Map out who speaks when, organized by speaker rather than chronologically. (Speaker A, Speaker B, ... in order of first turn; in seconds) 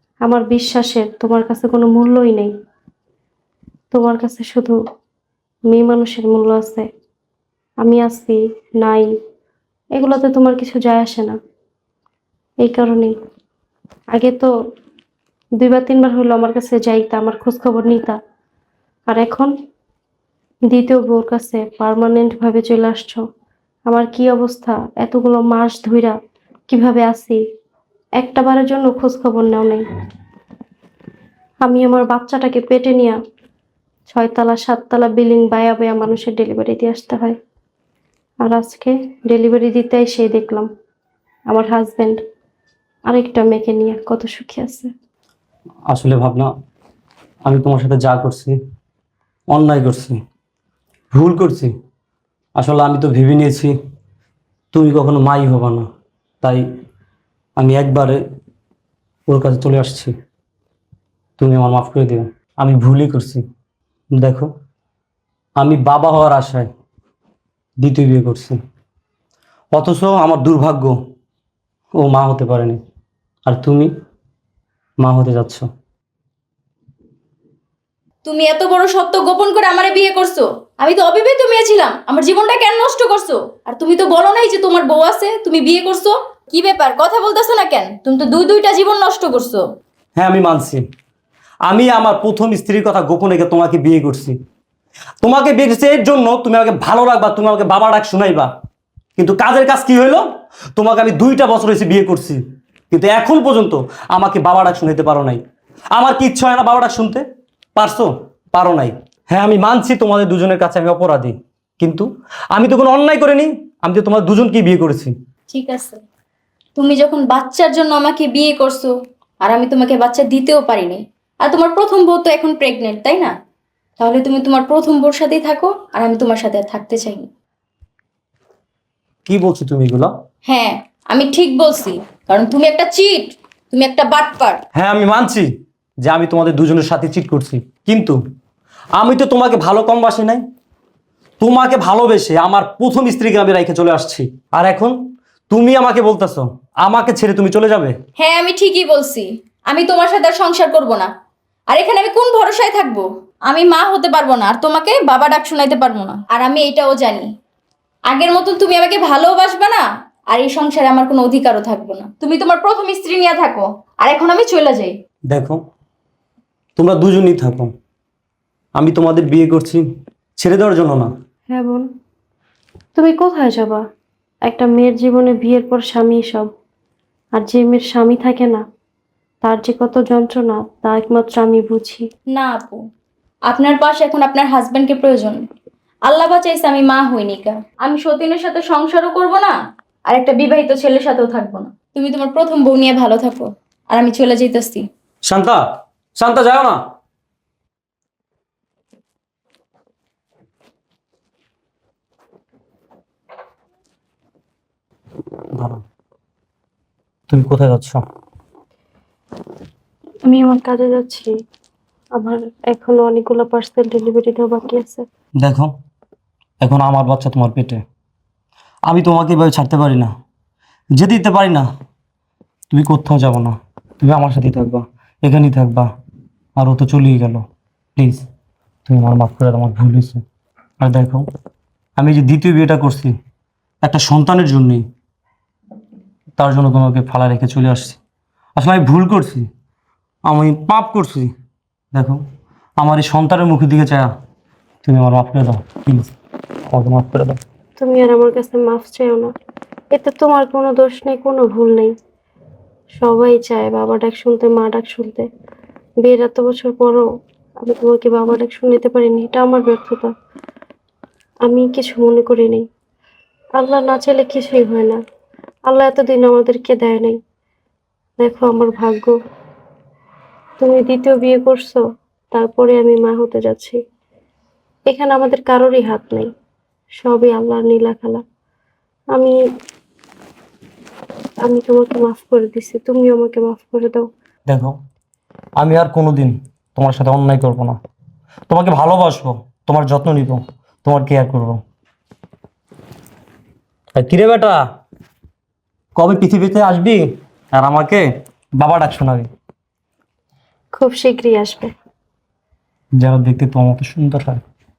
Speaker A: 0.2-2.5, 3.9-4.8, 5.7-6.9, 7.8-9.1, 9.9-11.4, 12.6-13.1, 14.1-14.5, 15.6-18.2, 19.1-19.5, 20.7-23.2, 23.9-26.1, 26.7-27.4, 28.2-29.8, 31.6-33.2, 34.1-37.4, 38.4-40.7, 41.5-42.2, 43.0-44.9, 171.5-171.9, 172.9-173.8, 174.4-176.5, 177.3-178.6, 179.4-182.1, 210.3-211.3, 212.1-215.0, 247.8-249.3, 249.9-251.9, 252.9-255.3, 256.0-257.1, 257.6-260.1, 261.4-262.6, 263.6-265.0, 265.7-267.2, 268.2-269.1, 270.6-273.8, 274.9-276.3, 277.0-278.2, 279.1-279.4, 281.4-284.1, 300.7-301.7
Speaker B: 45.9-46.5, 47.4-48.6, 49.5-50.2, 51.1-51.7, 52.6-53.7, 54.7-55.9, 57.6-58.2, 59.3-60.1, 61.4-63.4, 64.1-64.5, 65.6-66.7, 67.8-68.6, 69.7-71.0, 72.0-72.8, 73.5-73.9, 75.0-75.7, 90.2-90.8, 91.6-94.4, 95.2-98.5, 99.2-105.4, 105.9-107.2, 107.8-115.1, 129.2-130.1, 134.7-135.5, 136.0-138.2, 139.0-140.4, 141.4-145.0, 145.5-147.9, 165.3-165.6, 166.8-167.7, 168.8-169.8, 170.4-171.1, 195.3-195.6, 196.2-196.8, 205.5-205.8, 207.3-208.0, 215.4-215.7, 216.6-217.8, 218.9-220.1, 221.0-221.7, 222.7-225.9, 226.6-227.4, 227.9-228.2, 228.9-230.2, 230.8-231.2, 232.0-233.1, 233.8-234.8, 236.4-238.0, 238.6-239.4, 240.3-241.3, 241.9-242.2, 242.8-244.1, 244.8-246.1, 246.7-247.4, 284.5-284.8, 285.6-287.8, 288.5-291.6, 293.9-294.6, 295.9-298.1, 298.6-299.3, 303.0-304.4
Speaker C: 78.2-89.6, 115.5-116.0, 116.8-123.3, 124.0-127.3, 130.4-134.6, 148.2-151.1, 151.7-157.3, 158.1-164.9, 182.3-182.8, 183.5-185.4, 186.0-189.5, 190.1-194.8